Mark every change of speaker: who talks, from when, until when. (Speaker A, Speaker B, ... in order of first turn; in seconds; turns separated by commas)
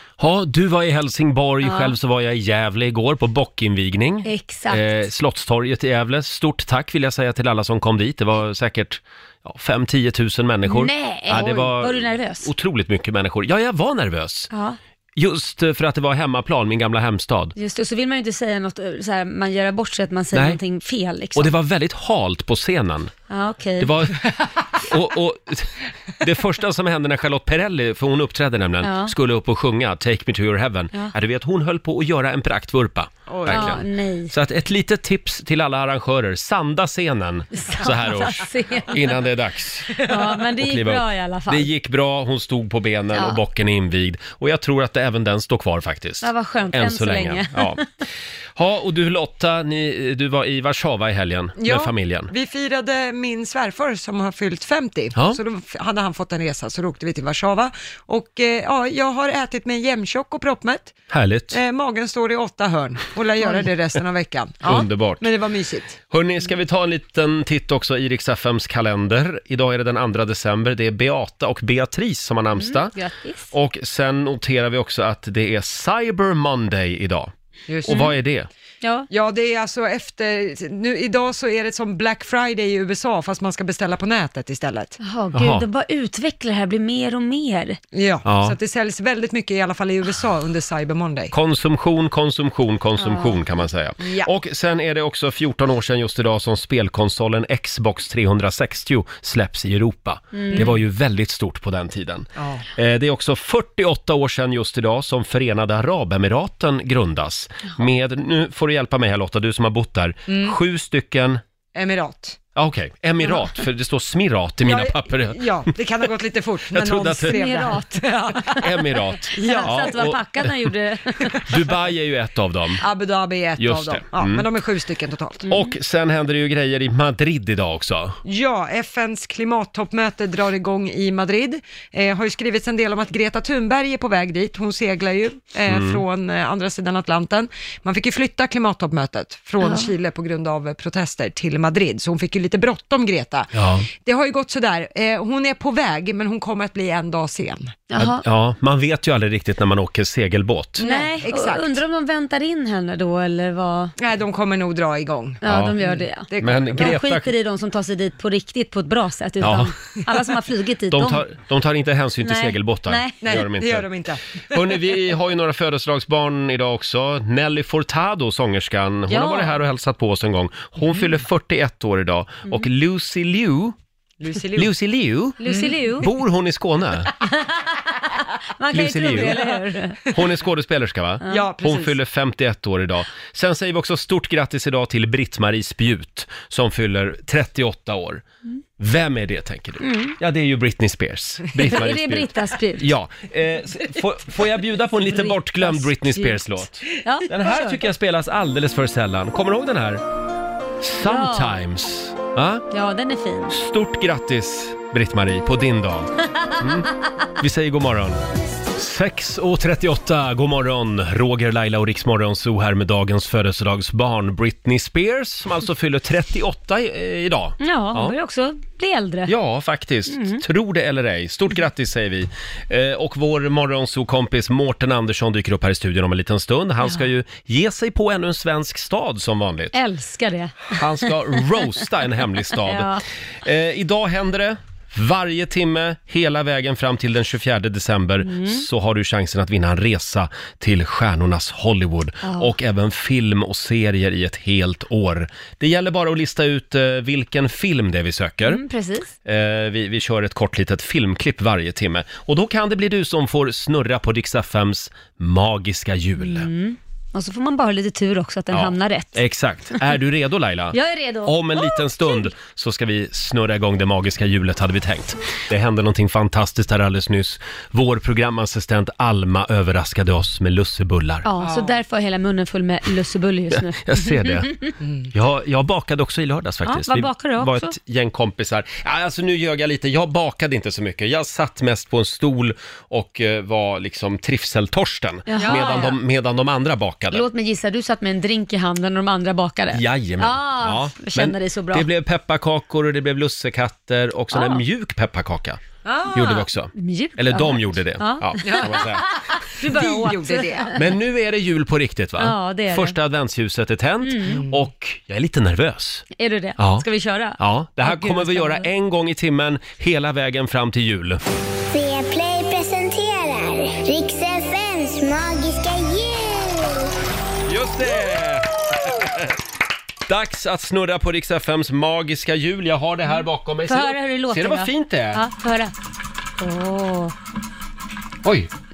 Speaker A: 0.2-14.5, Speaker B: 1.6-1.9, Speaker B: 4.2-5.1, Speaker B: 10.7-12.5, Speaker B: 14.5-14.8, Speaker A: 15.2-17.5, Speaker B: 17.6-21.5, Speaker A: 20.3-20.6, Speaker A: 21.4-23.1, Speaker B: 23.3-23.9, Speaker A: 23.8-47.8, Speaker B: 28.8-29.1, Speaker C: 33.3-33.8, Speaker B: 33.5-34.3, Speaker B: 37.5-39.2, Speaker B: 40.0-41.7, Speaker B: 43.1-43.4, Speaker B: 46.2-47.9, Speaker A: 48.6-52.3, Speaker C: 51.6-61.0, Speaker A: 55.1-55.4, Speaker A: 61.1-61.6, Speaker C: 61.5-66.0, Speaker A: 64.7-65.3, Speaker A: 66.1-73.0, Speaker B: 72.6-73.5, Speaker A: 73.5-77.3, Speaker C: 77.7-78.0, Speaker A: 77.8-78.5, Speaker B: 77.9-78.2, Speaker B: 78.8-79.1, Speaker C: 79.1-85.0, Speaker B: 85.0-87.8, Speaker A: 85.3-85.7, Speaker C: 87.9-91.3, Speaker A: 88.2-88.6, Speaker A: 91.3-111.4, Speaker B: 93.0-93.4, Speaker C: 94.0-94.3, Speaker B: 100.3-100.7, Speaker C: 102.4-102.6, Speaker C: 110.3-110.6, Speaker C: 111.8-112.4, Speaker A: 112.5-115.7, Speaker C: 114.7-118.6, Speaker A: 116.7-117.4, Speaker B: 117.3-118.7, Speaker A: 118.6-120.7, Speaker C: 119.4-119.9, Speaker B: 119.4-121.4, Speaker A: 121.4-122.8, Speaker C: 122.8-125.5, Speaker A: 123.6-124.5, Speaker A: 125.5-128.2, Speaker C: 128.2-147.8, Speaker A: 135.7-136.0, Speaker B: 139.6-139.9, Speaker A: 143.5-143.9, Speaker B: 147.9-148.2, Speaker A: 148.0-150.9, Speaker C: 150.8-151.7, Speaker B: 150.8-153.9, Speaker C: 154.0-156.9, Speaker B: 155.4-161.3, Speaker A: 155.4-155.8, Speaker A: 156.4-157.3, Speaker A: 159.4-159.7, Speaker A: 160.9-163.9, Speaker B: 162.2-163.4, Speaker C: 163.2-164.2, Speaker A: 164.5-173.8, Speaker B: 169.1-169.6, Speaker C: 174.2-174.7, Speaker A: 174.6-177.1, Speaker B: 175.4-176.1, Speaker C: 175.4-175.8, Speaker B: 177.2-180.0, Speaker A: 178.7-188.2, Speaker C: 181.3-181.9, Speaker A: 188.8-200.0, Speaker B: 189.8-190.2, Speaker B: 191.6-192.9, Speaker B: 195.1-197.8, Speaker A: 200.8-202.7, Speaker B: 201.0-201.6, Speaker B: 202.7-203.6, Speaker A: 203.5-208.2, Speaker A: 208.8-218.2, Speaker B: 217.6-219.3, Speaker A: 219.3-229.8, Speaker B: 220.1-220.4, Speaker B: 229.7-231.4, Speaker A: 230.7-248.6, Speaker B: 232.7-233.0, Speaker B: 238.2-238.7, Speaker B: 242.2-242.5, Speaker B: 248.4-249.1, Speaker A: 249.2-256.5, Speaker B: 256.2-259.2, Speaker A: 258.5-271.3, Speaker B: 260.7-261.8, Speaker B: 271.2-274.7, Speaker C: 271.4-271.7, Speaker A: 273.5-274.6, Speaker A: 275.1-287.3, Speaker B: 276.7-277.8, Speaker B: 285.3-286.0, Speaker B: 287.1-291.9, Speaker A: 289.7-295.6, Speaker B: 294.3-294.6, Speaker C: 295.9-296.2, Speaker A: 296.1-299.1, Speaker B: 296.7-300.8, Speaker C: 298.4-298.8, Speaker C: 299.6-300.7, Speaker A: 300.8-306.1, Speaker B: 302.2-303.0, Speaker B: 304.0-304.5, Speaker C: 304.3-304.5, Speaker B: 306.1-308.7, Speaker A: 306.6-311.2, Speaker D: 311.7-316.9, Speaker A: 317.5-319.4, Speaker A: 320.1-325.2, Speaker B: 323.7-325.7, Speaker B: 326.4-327.1, Speaker A: 328.2-328.5